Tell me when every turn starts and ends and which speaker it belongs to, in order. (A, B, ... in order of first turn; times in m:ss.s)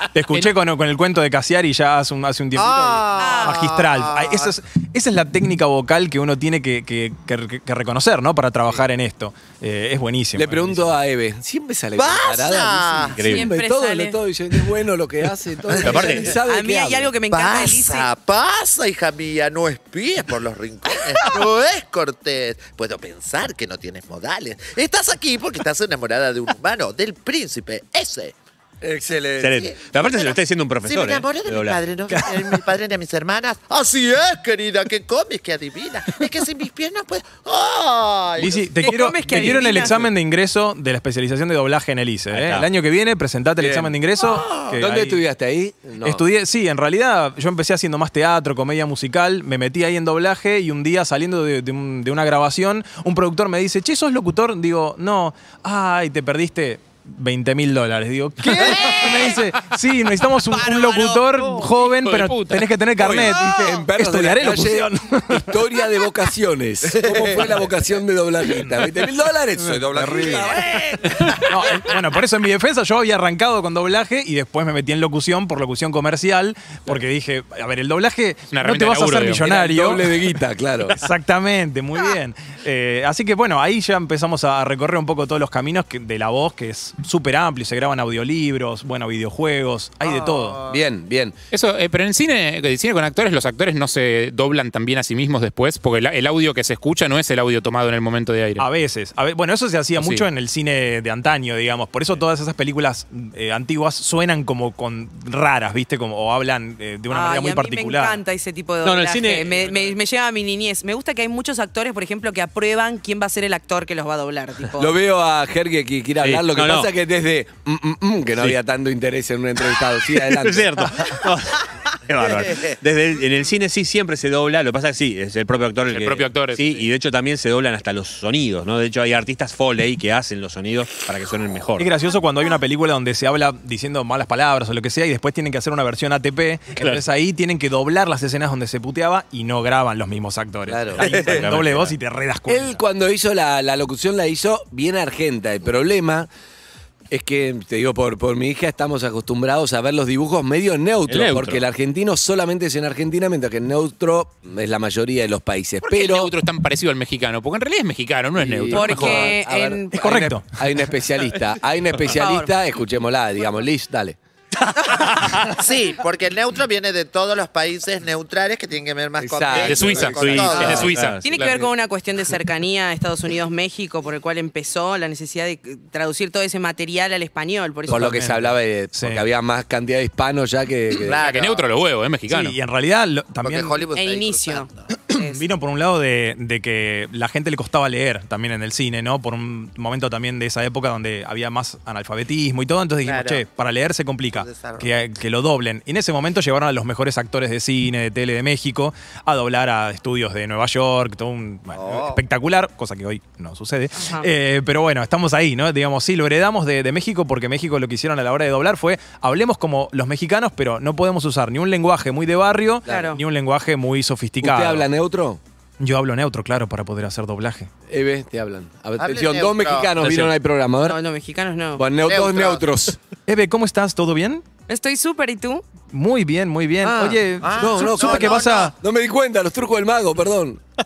0:00.1-0:10.9 A
0:02.6-0:04.5 B
0:03.2-0:03.6 C
0:10.4-0:17.1 D
0:12.0-0:13.3 B
0:13.2-0:13.5 E
0:13.2-0:14.2 C
0:15.7-0:16.2 B
0:15.8-0:16.4 E
0:16.4-0:18.1 C
0:17.3-0:28.4 B
0:28.8-0:29.7 D
0:29.4-0:31.8 E
0:29.6-0:38.7 B
0:38.4-0:45.2 A
0:38.8-0:40.0 C
0:42.3-0:42.7 E
0:43.6-0:44.0 D
0:44.2-0:44.8 B
0:44.8-0:46.2 D
0:46.0-1:05.6 A
0:58.7-0:59.3 C
0:59.0-0:59.3 B
1:00.5-1:01.6 C
1:02.0-1:02.7 F
1:03.0-1:10.7 D
1:03.2-1:03.7 C
1:07.0-1:07.5 B
1:09.6-1:10.6 A
1:10.5-1:11.4 B
1:11.3-1:20.1 A
1:18.5-1:19.5 F
1:19.4-1:21.0 D
1:20.9-1:30.6 A
1:30.0-1:30.8 B
1:30.7-1:31.4 D
1:31.5-1:38.6 F
1:38.6-1:48.2 A
1:40.0-1:40.2 F
1:47.1-1:55.0 C
1:48.8-1:49.9 E
1:54.8-2:01.0 D
1:56.2-1:56.9 E
2:00.1-2:11.9 E
2:02.4-2:02.7 B
2:05.9-2:06.8 F
2:11.8-2:22.8 A
2:20.7-2:21.5 D
2:21.0-2:21.9 E
2:22.5-2:26.3 D
2:27.1-2:36.3 D
2:31.1-2:31.6 E
2:35.8-2:39.3 F
2:38.4-2:44.2 D
2:38.7-2:40.1 C
2:39.9-2:40.6 A
2:42.1-2:42.5 C
2:44.8-2:45.2 C
2:45.5-2:51.0 B
2:49.2-2:50.9 D
2:49.6-2:51.7 F
2:50.0-2:51.5 E
2:51.2-2:58.2 C
2:57.9-2:59.2 A
2:57.9-3:01.2 D
3:01.0-3:01.7 B
3:01.2-3:02.6 F
3:02.3-3:03.8 A
3:03.4-3:04.9 B
3:04.0-3:05.4 C
3:05.1-3:34.9 A
3:13.0-3:13.4 B
3:14.3-3:14.9 B
3:21.8-3:22.2 B
3:24.0-3:24.3 C
3:32.9-3:33.1 D
3:32.9-3:33.2 C
3:34.4-3:35.4 D
3:35.8-3:37.7 A
3:37.9-3:41.0 D
3:39.0-3:39.9 B
3:40.0-3:40.3 E
3:40.8-3:41.9 C
3:41.8-3:43.0 D
3:42.0-3:42.6 B
3:43.3-3:44.4 A
3:44.7-3:45.6 C
3:45.9-3:48.8 A
3:46.8-3:50.6 D
3:47.4-3:48.7 B